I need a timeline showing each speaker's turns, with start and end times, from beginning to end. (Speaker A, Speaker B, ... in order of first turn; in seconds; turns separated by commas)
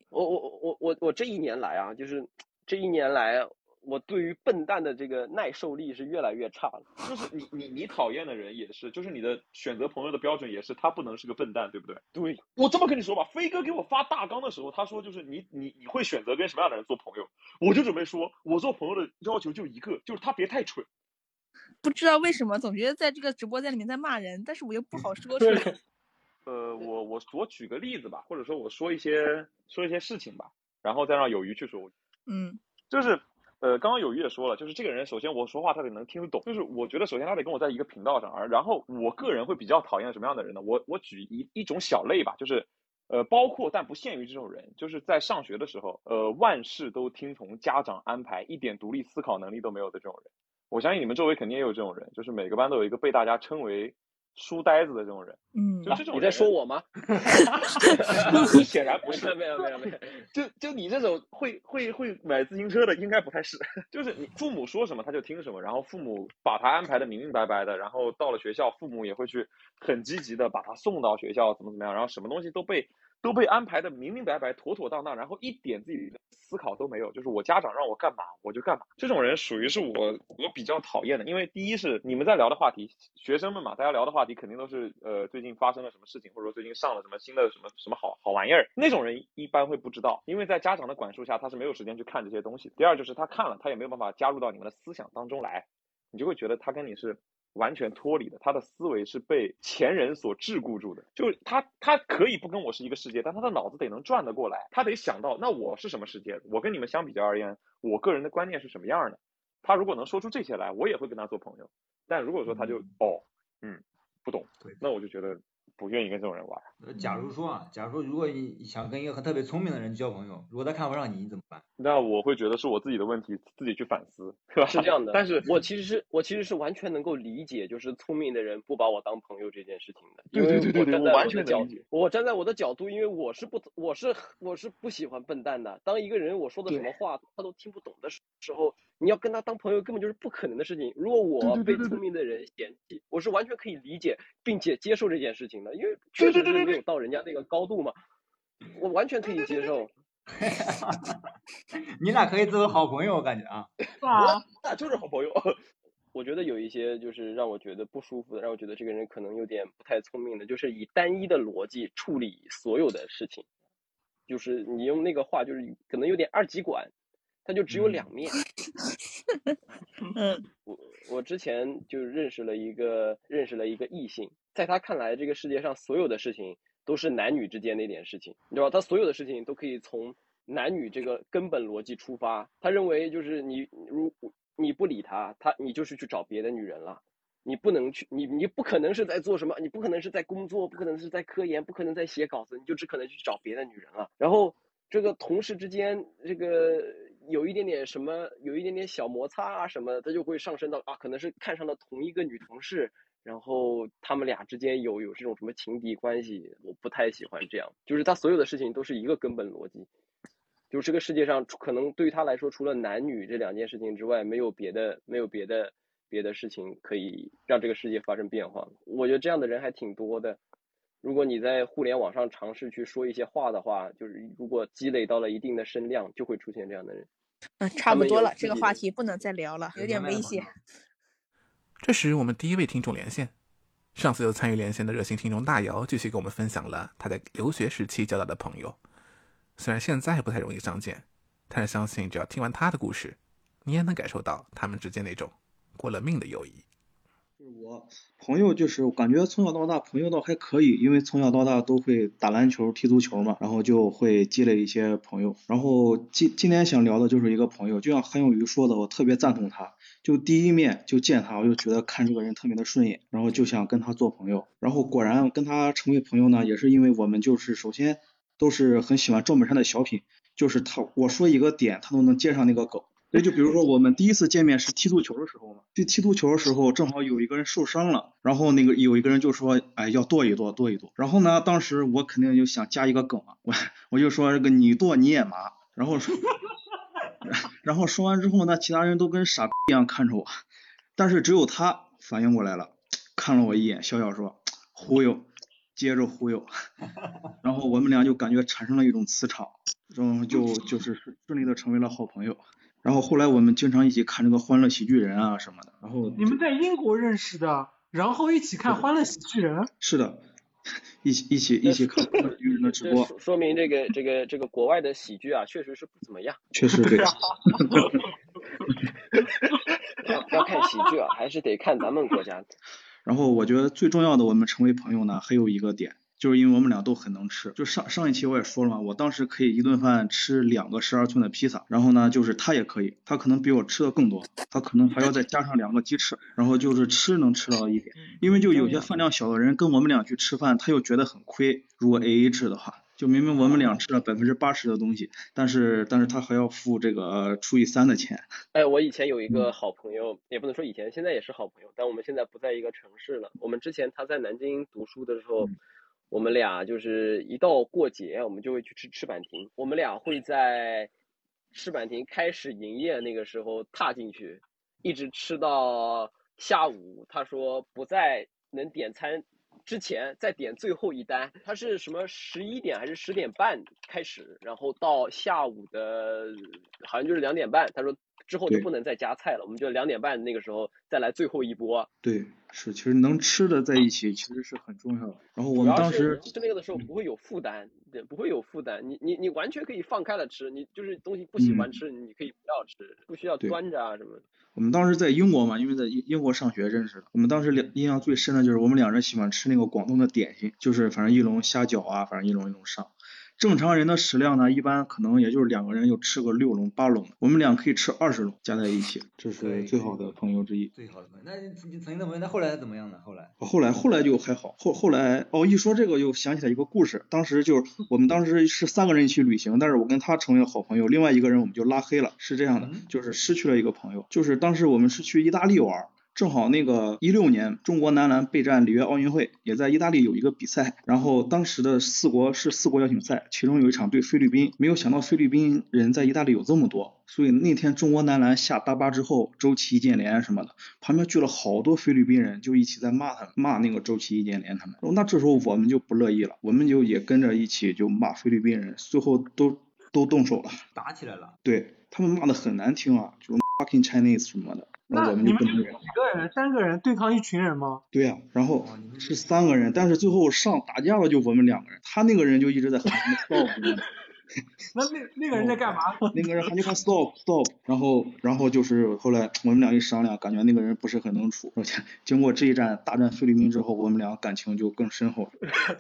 Speaker A: 0.1-6.9, Speaker B: 7.0-20.9, Speaker C: 21.8-25.7, Speaker D: 25.4-25.8, Speaker B: 26.5-31.9, Speaker C: 32.3-32.6, Speaker B: 32.9-56.5, Speaker C: 55.5-56.0, Speaker A: 55.9-56.9, Speaker A: 57.9-60.2, Speaker B: 58.1-59.4, Speaker B: 60.3-116.7, Speaker E: 112.5-112.9, Speaker E: 116.8-121.6, Speaker B: 121.8-125.6, Speaker A: 124.7-147.9, Speaker B: 130.3-131.8, Speaker B: 141.4-142.0, Speaker B: 146.2-146.8, Speaker A: 148.8-149.9, Speaker E: 150.3-151.2, Speaker E: 152.0-153.7, Speaker D: 154.0-154.4, Speaker B: 154.3-155.6, Speaker A: 156.2-163.4, Speaker A: 164.3-166.9, Speaker A: 167.4-168.4, Speaker E: 167.7-168.1, Speaker C: 170.1-170.4, Speaker A: 170.7-209.9, Speaker A: 210.7-220.4, Speaker A: 221.0-227.1, Speaker C: 227.6-230.5, Speaker A: 227.9-228.8, Speaker E: 229.8-230.5, Speaker F: 231.8-233.3, Speaker F: 233.9-238.8, Speaker F: 239.6-246.7, Speaker G: 247.4-286.4, Speaker G: 287.2-290.4, Speaker G: 291.0-296.5, Speaker G: 297.4-306.4, Speaker D: 306.2-309.7, Speaker G: 309.8-310.2, Speaker G: 311.0-313.1, Speaker A: 311.6-316.4, Speaker G: 316.5-318.0, Speaker A: 320.1-322.5, Speaker G: 323.1-348.3, Speaker A: 348.5-355.5, Speaker A: 356.1-360.9, Speaker A: 361.5-381.9, Speaker G: 382.0-386.2, Speaker A: 385.5-394.2, Speaker G: 391.4-391.8, Speaker G: 394.6-410.7, Speaker E: 409.4-410.1, Speaker E: 410.8-413.3, Speaker G: 413.4-450.6, Speaker E: 422.6-422.9, Speaker E: 450.8-451.4, Speaker G: 451.4-455.8, Speaker D: 454.9-457.8, Speaker G: 457.9-463.9, Speaker E: 458.6-459.8, Speaker D: 464.7-466.6, Speaker G: 465.3-475.4